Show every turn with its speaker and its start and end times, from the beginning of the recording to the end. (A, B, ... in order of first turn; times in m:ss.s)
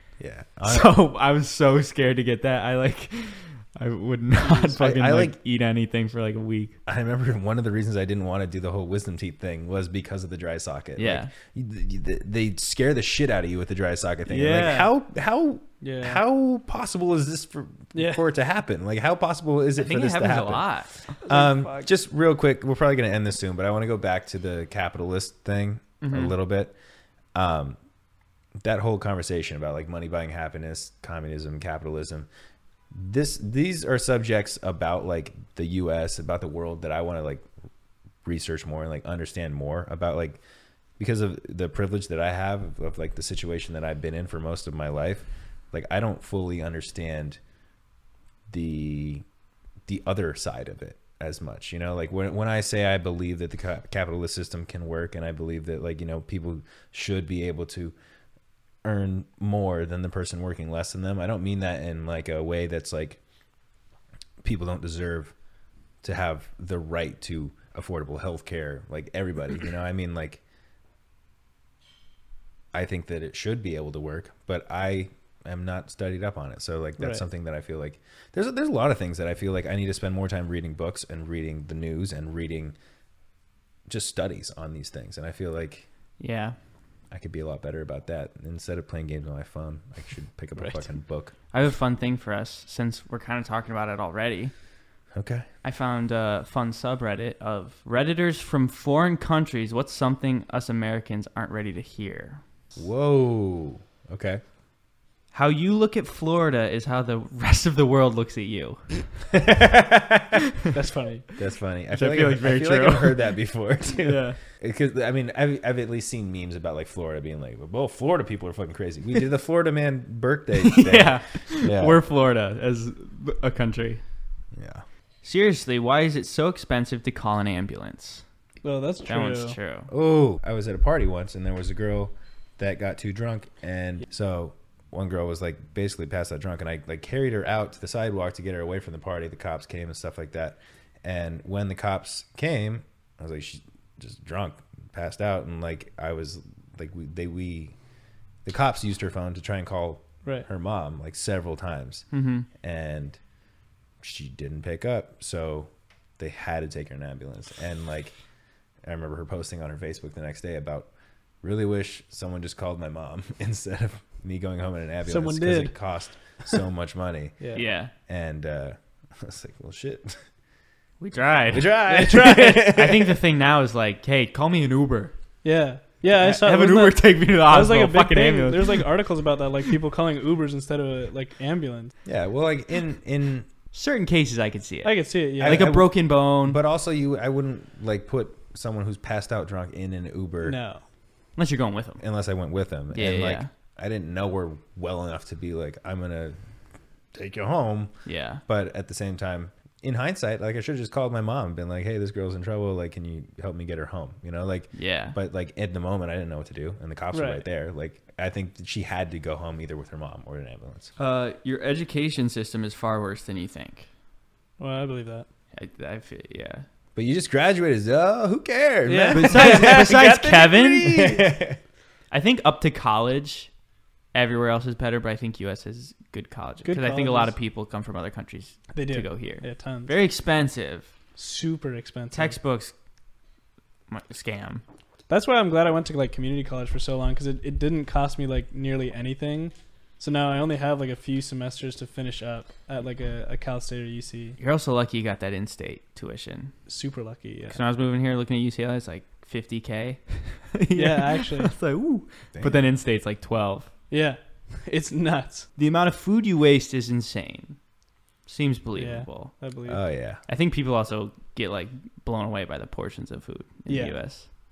0:00.2-0:00.9 A
0:00.6-0:06.8 B
0:04.8-0:05.4 A
0:06.9-0:26.7 A
0:11.0-0:11.3 B
0:14.3-0:14.9 B
0:15.8-0:16.2 C
0:17.9-0:18.2 C
0:19.8-0:20.9 B
0:21.2-0:21.9 C
0:26.0-0:26.4 B
0:27.4-0:27.8 A
0:28.6-0:32.3 A
0:32.9-0:37.5 A
0:38.2-0:40.4 A
0:41.0-0:47.4 A
0:48.5-0:49.2 A
0:49.9-0:57.9 A
0:58.8-1:03.2 A
1:04.4-1:05.3 A
1:06.0-1:10.4 A
1:12.7-1:22.8 A
1:17.0-1:17.2 C
1:23.9-1:25.9 A
1:26.2-1:26.6 B
1:27.1-1:31.3 A
1:30.6-1:30.8 C
1:31.5-1:34.5 B
1:35.1-1:35.5 A
1:35.6-1:42.4 B
1:42.8-1:44.4 A
1:45.3-1:49.1 B
1:49.3-1:50.4 A
1:50.3-1:50.7 B
1:50.7-1:51.3 C
1:51.4-2:02.0 A
1:51.9-1:53.3 B
1:54.0-1:54.4 B
2:00.6-2:04.0 B
2:04.5-2:04.8 A
2:05.2-2:08.2 B
2:08.6-2:09.6 C
2:09.1-2:09.9 B
2:09.9-2:27.8 A
2:28.4-2:32.1 A
2:32.1-2:32.5 B
2:32.6-2:33.2 A
2:34.0-2:38.2 A
2:38.8-2:40.9 A
2:41.4-2:47.4 A
2:45.1-2:45.7 C
2:47.5-2:47.9 B
2:48.0-2:50.2 A
2:51.0-2:55.1 B
2:51.5-2:53.2 A
2:51.9-2:52.7 C
2:55.4-3:01.9 C
2:56.2-2:58.9 B
3:02.0-3:03.5 A
3:03.7-3:06.6 B
3:04.8-3:05.7 C
3:05.4-3:10.6 A
3:10.4-3:10.8 C
3:11.4-3:12.0 B
3:12.0-3:16.4 A
3:12.9-3:13.5 B
3:17.1-3:17.9 A
3:18.0-3:18.4 B
3:18.5-3:30.9 A
3:24.7-3:25.2 B
3:27.1-3:27.4 C
3:31.0-3:33.9 B
3:34.6-3:35.3 C
3:35.6-3:36.7 B
3:37.0-3:41.6 A
3:38.9-3:40.3 C
3:39.1-3:41.3 B
3:42.1-3:43.5 B
3:44.1-3:50.9 B
3:46.6-3:47.3 C
3:48.7-3:49.9 C
3:51.2-3:52.4 C
3:52.1-3:52.7 B
3:53.9-3:54.6 B
3:55.1-4:04.4 C
4:04.4-4:06.5 B
4:06.7-4:07.6 C
4:07.5-4:13.7 B
4:10.8-4:11.5 C
4:12.3-4:12.7 A
4:13.9-4:15.5 C
4:15.6-4:17.6 B
4:18.3-4:19.3 B
4:18.7-4:19.8 C
4:19.7-4:20.2 A
4:20.3-4:24.3 B
4:23.7-4:24.0 C